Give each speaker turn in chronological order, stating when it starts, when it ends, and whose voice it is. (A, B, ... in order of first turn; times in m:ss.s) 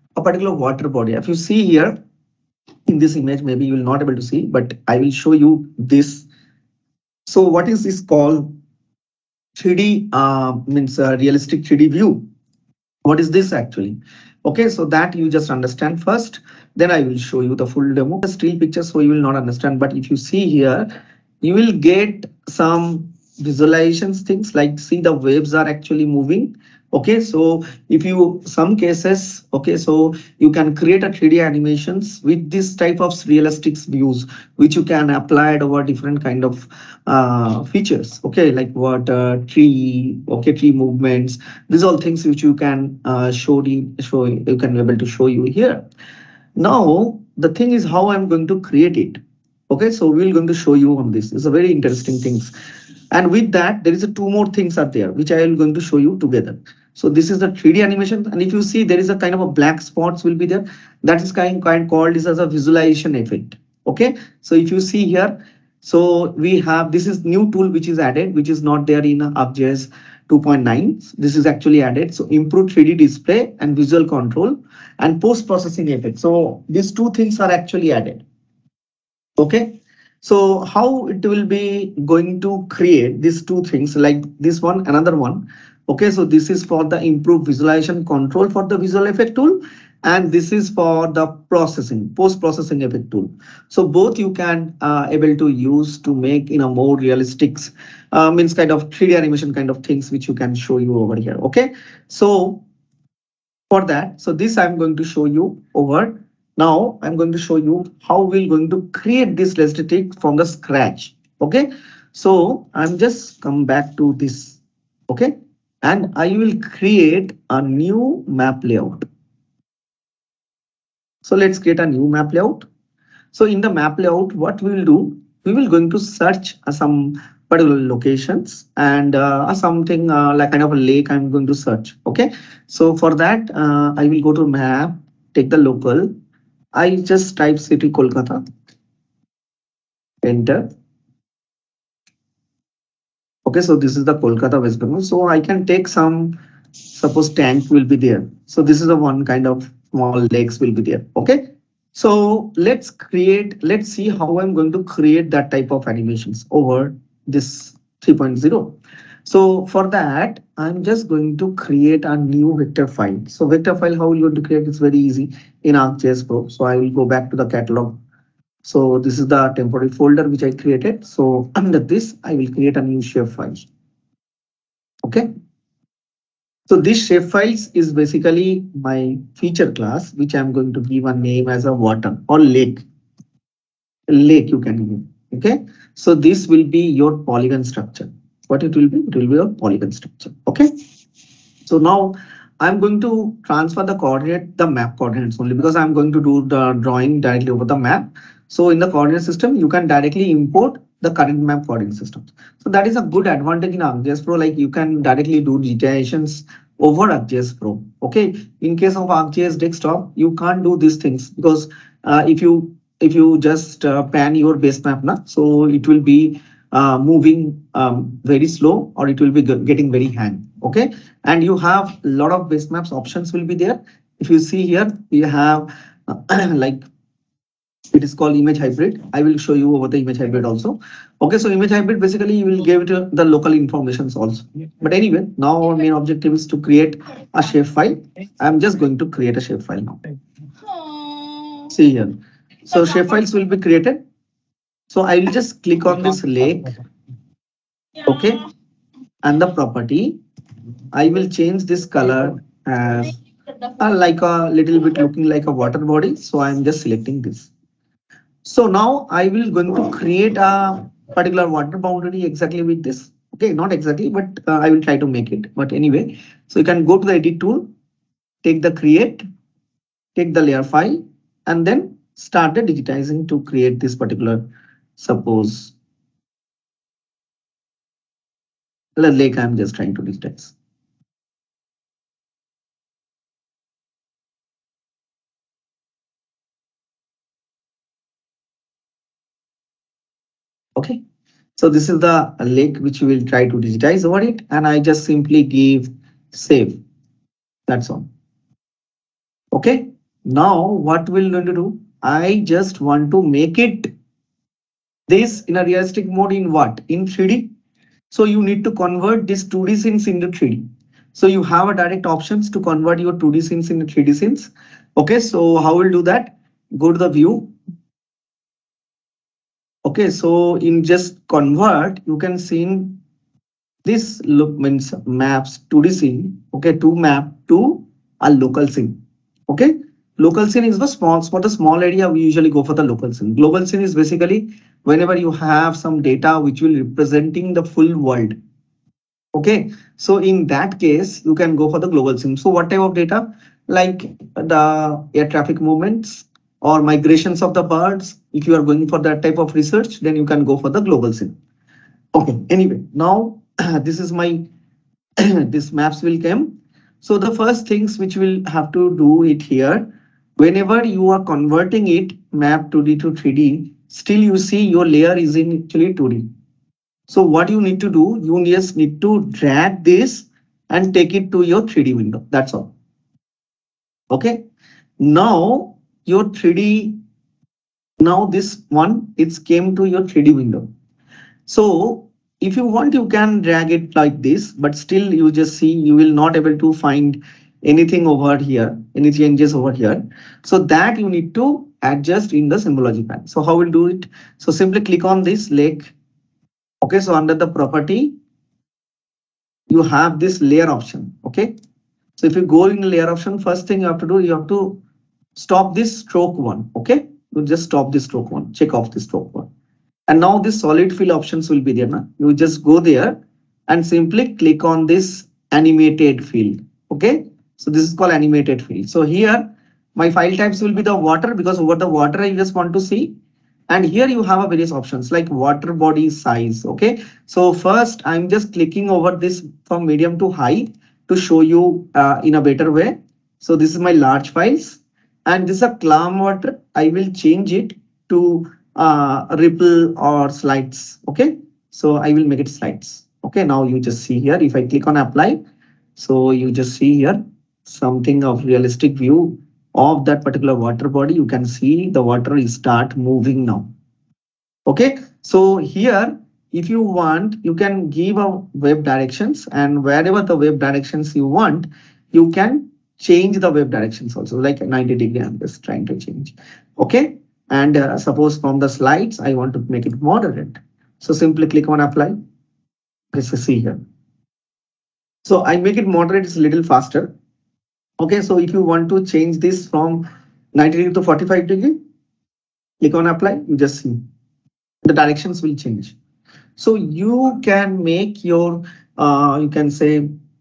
0:00.2-0:02.0 A
0:02.9-0:06.3 A
0:07.3-0:08.5 A
0:09.6-0:12.2 A
0:13.0-0:20.9 A
0:21.4-0:45.9 A
0:46.6-0:52.5 A
0:53.1-1:18.2 A
1:19.4-1:42.6 A
1:43.7-1:59.0 A
2:01.2-2:02.7 A
2:03.3-2:16.1 A
2:16.7-2:18.4 A
2:20.2-2:20.7 A
2:23.4-2:26.4 A
2:26.9-2:48.0 A
2:48.6-2:53.7 A
2:55.0-2:55.3 A
2:56.7-3:02.8 A
3:04.1-3:10.7 A
3:11.6-3:46.9 A
3:47.9-4:00.0 A
4:01.7-4:04.0 A
4:04.9-4:06.8 A
4:08.0-4:08.4 A
4:09.2-4:10.2 A
4:10.9-4:13.2 A
4:13.8-4:17.5 A
4:18.4-4:27.7 A
4:28.4-4:29.2 A
4:30.2-4:34.4 A
4:35.0-4:35.7 A
4:39.0-4:40.5 A
4:51.6-4:56.8 A
4:57.7-4:58.1 A
4:59.5-5:03.9 A
5:05.1-5:07.5 A
5:08.1-5:17.5 A
5:19.8-5:23.0 A
5:23.8-5:38.4 A
5:39.4-5:51.3 A
5:52.1-5:54.4 A
5:55.2-5:59.9 A
6:00.4-6:06.3 A
6:07.1-6:12.7 A
6:14.1-6:14.4 A
6:15.0-6:17.0 A
6:18.0-6:20.7 A
6:21.5-6:35.9 A
6:36.8-6:38.1 A
6:39.7-6:41.5 A
6:42.2-6:44.8 A
6:45.4-6:49.5 A
6:50.1-6:53.2 A
6:53.7-7:03.1 A
7:03.7-7:25.4 A
7:26.0-7:33.7 A
7:34.7-7:52.2 A
7:53.1-7:53.8 A
7:55.2-7:57.1 A
7:58.0-8:01.8 A
8:02.8-8:04.0 A
8:04.8-8:06.0 A
8:06.6-8:10.1 A